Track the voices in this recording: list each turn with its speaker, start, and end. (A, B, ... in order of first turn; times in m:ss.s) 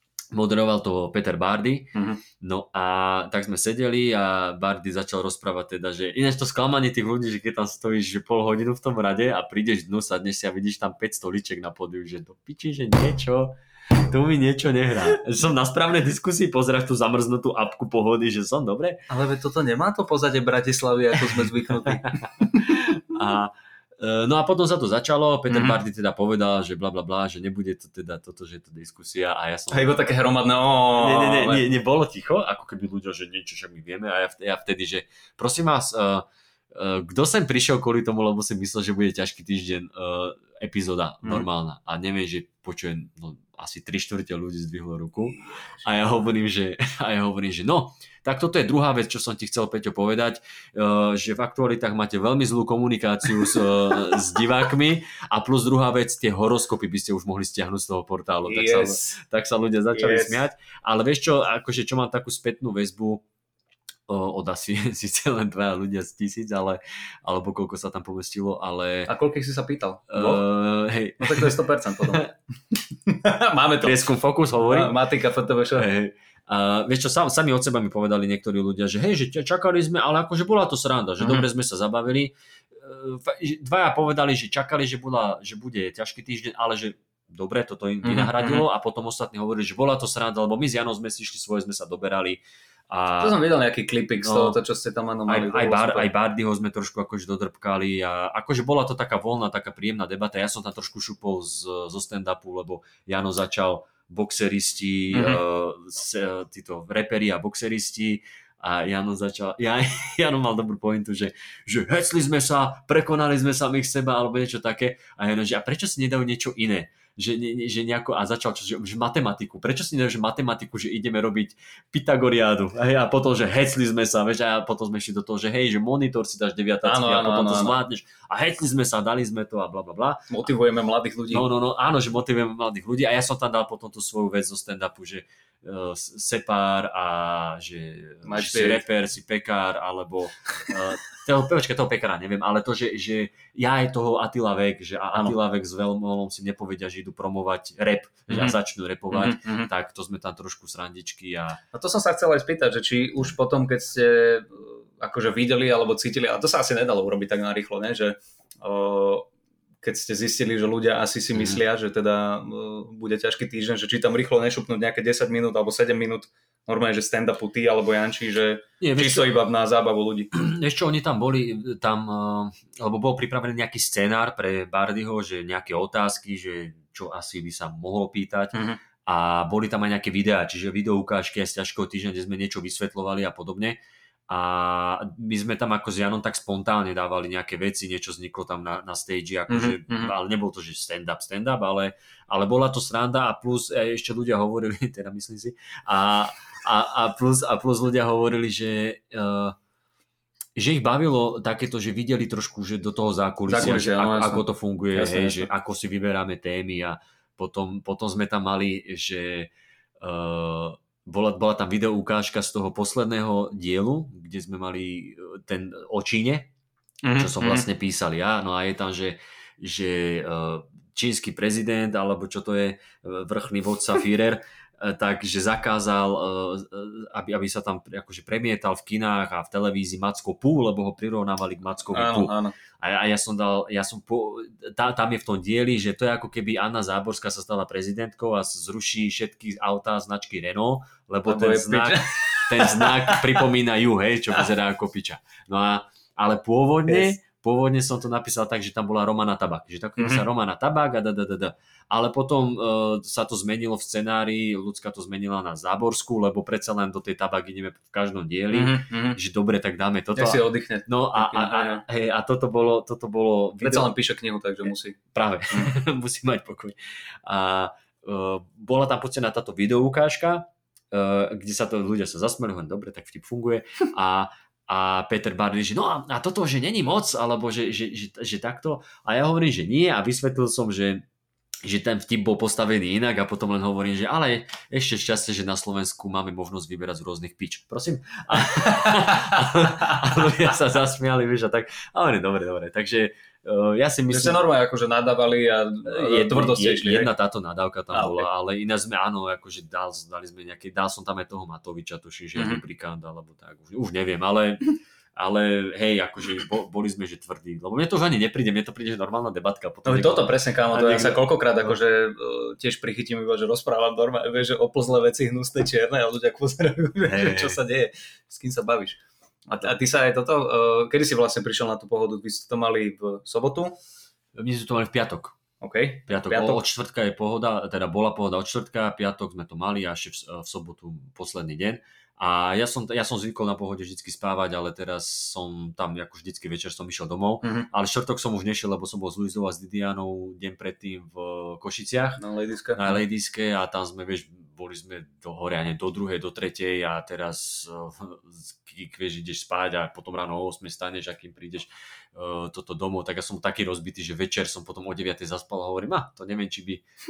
0:00.3-0:19.0 A
0:02.0-0:02.2 B
0:19.1-0:22.8 B
0:21.9-0:30.0 A
0:25.5-0:25.8 B
0:29.7-0:31.6 B
0:31.0-1:03.2 A
0:58.4-0:59.2 B
0:59.9-1:00.4 B
1:04.1-1:09.1 A
1:09.1-1:10.4 B
1:10.1-1:12.3 A
1:11.2-1:14.0 B
1:13.8-1:15.0 A
1:14.6-1:15.9 B
1:15.8-1:33.4 A
1:21.2-1:21.5 B
1:28.0-1:28.7 B
1:33.2-1:36.1 B
1:34.2-1:34.6 A
1:35.3-2:10.3 A
1:45.1-1:45.4 B
2:06.8-2:07.8 B
2:10.3-2:11.5 B
2:11.3-2:31.6 A
2:18.2-2:18.8 B
2:28.3-2:28.6 B
2:29.1-2:29.7 B
2:31.7-2:39.3 B
2:39.8-2:50.3 B
2:48.8-2:49.4 A
2:50.3-3:19.6 A
2:58.5-2:58.8 B
3:09.5-3:10.1 B
3:20.6-3:36.5 A
3:23.5-3:25.5 B
3:37.0-3:37.7 B
3:37.2-4:23.9 A
3:51.9-3:52.5 B
4:01.3-4:03.5 B
4:06.9-4:07.1 B
4:10.0-4:10.2 B
4:18.5-4:19.2 B
4:20.2-4:21.8 B
4:23.6-4:25.0 B
4:25.1-4:41.0 A
4:41.6-4:54.5 A
4:48.6-4:50.4 B
4:54.1-4:57.1 B
4:55.9-5:11.7 A
4:57.9-4:58.3 B
5:02.4-5:02.6 B
5:09.8-5:23.8 B
5:17.0-5:17.6 A
5:24.4-5:25.4 A
5:25.6-5:26.6 B
5:26.1-5:42.2 A
5:37.4-5:37.7 B
5:42.2-5:43.0 B
5:42.8-5:56.8 A